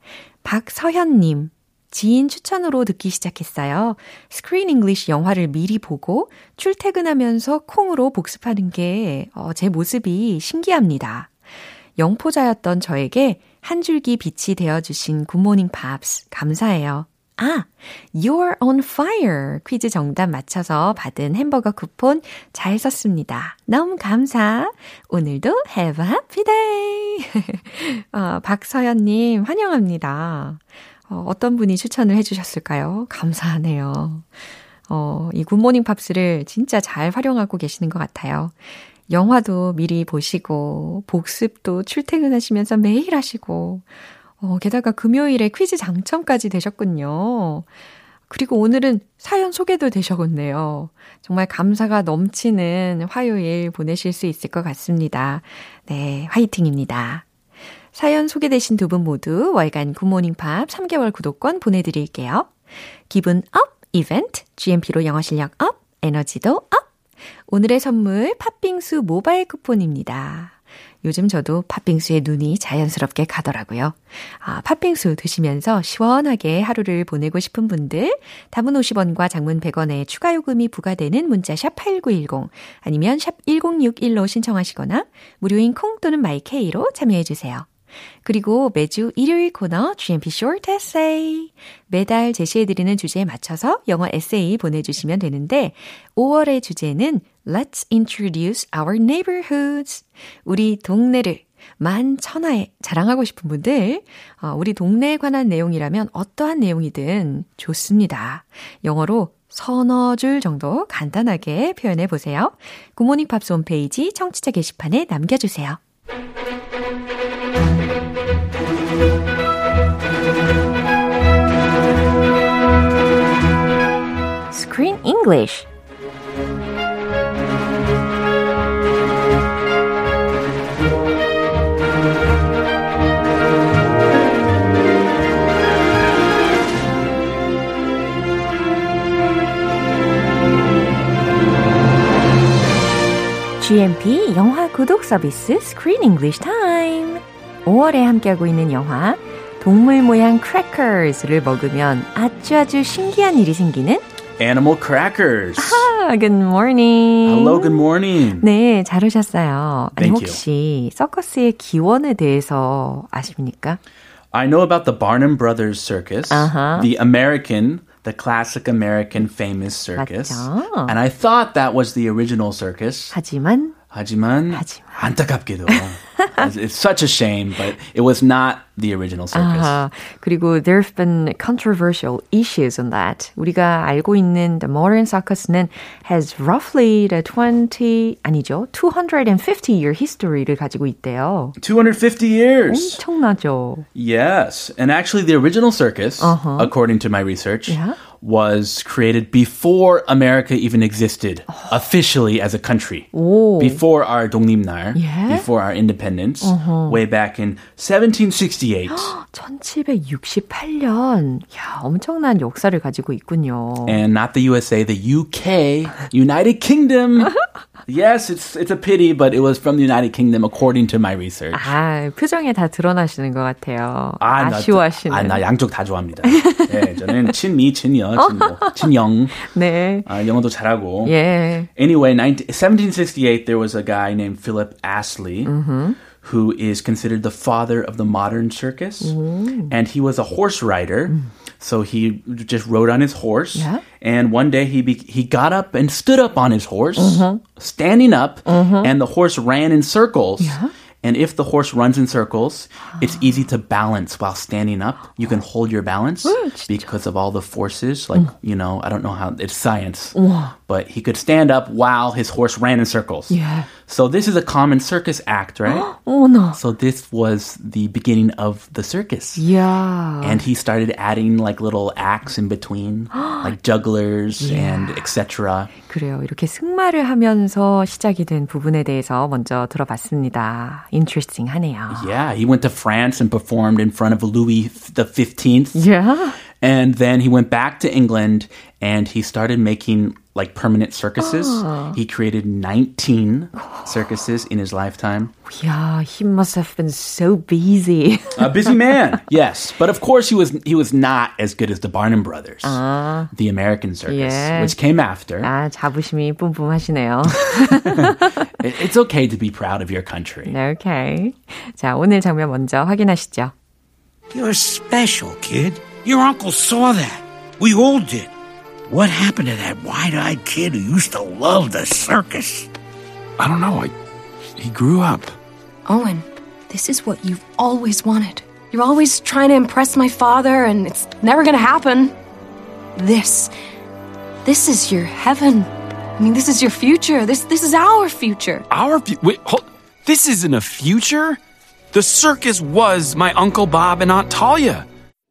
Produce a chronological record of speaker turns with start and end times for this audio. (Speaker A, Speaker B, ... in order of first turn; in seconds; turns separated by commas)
Speaker A: 0.4-11.4, Speaker A: 12.0-34.3, Speaker A: 34.9-47.7, Speaker A: 48.3-57.2, Speaker A: 57.9-62.5, Speaker A: 63.1-66.9, Speaker A: 67.5-87.7, Speaker A: 88.2-115.8, Speaker A: 124.5-125.7, Speaker A: 143.6-154.1, Speaker B: 154.4-155.9, Speaker A: 155.6-163.8, Speaker B: 157.2-158.5, Speaker B: 160.0-160.4, Speaker B: 164.3-173.2, Speaker A: 166.3-166.9, Speaker A: 170.0-171.0, Speaker A: 173.1-173.8, Speaker B: 173.9-179.8, Speaker A: 174.5-175.1, Speaker A: 175.7-176.4, Speaker A: 179.3-191.6, Speaker B: 191.6-193.0, Speaker A: 192.7-193.9, Speaker B: 193.9-209.1, Speaker A: 196.2-196.7, Speaker A: 197.7-198.0, Speaker A: 201.5-201.8, Speaker A: 203.1-203.8, Speaker A: 204.9-205.5, Speaker A: 206.4-207.0, Speaker A: 208.9-214.0, Speaker B: 213.8-217.3, Speaker B: 217.9-221.7, Speaker A: 221.5-225.4, Speaker B: 224.2-229.4, Speaker A: 226.2-227.3, Speaker A: 228.2-230.1, Speaker B: 230.1-231.1, Speaker A: 231.0-231.7, Speaker B: 231.8-235.5, Speaker A: 235.4-236.0, Speaker B: 236.2-239.2, Speaker A: 239.0-239.8, Speaker B: 239.7-265.9, Speaker A: 243.6-243.8, Speaker A: 247.0-247.4, Speaker A: 248.5-248.9, Speaker A: 250.4-250.7, Speaker A: 256.2-256.9, Speaker A: 260.1-260.6, Speaker A: 263.3-263.7, Speaker A: 265.6-266.6, Speaker B: 266.6-269.4, Speaker A: 269.4-270.4, Speaker B: 270.2-275.7, Speaker A: 273.1-273.6, Speaker A: 274.4-275.1, Speaker A: 275.9-282.1, Speaker B: 281.9-285.8, Speaker A: 285.7-286.4, Speaker B: 286.6-295.3, Speaker A: 291.2-292.0, Speaker A: 293.6-293.9, Speaker A: 295.5-298.8, Speaker B: 298.4-302.8, Speaker A: 302.6-303.3, Speaker B: 303.3-305.5, Speaker A: 304.1-304.8, Speaker A: 305.4-308.5, Speaker B: 307.5-310.6, Speaker A: 310.5-313.5, Speaker C: 314.3-318.3, Speaker C: 318.9-322.7, Speaker D: 323.4-323.9, Speaker D: 324.6-325.4, Speaker E: 325.9-332.1, Speaker E: 333.0-333.5, Speaker E: 334.4-338.6, Speaker D: 338.7-341.4, Speaker D: 341.9-344.9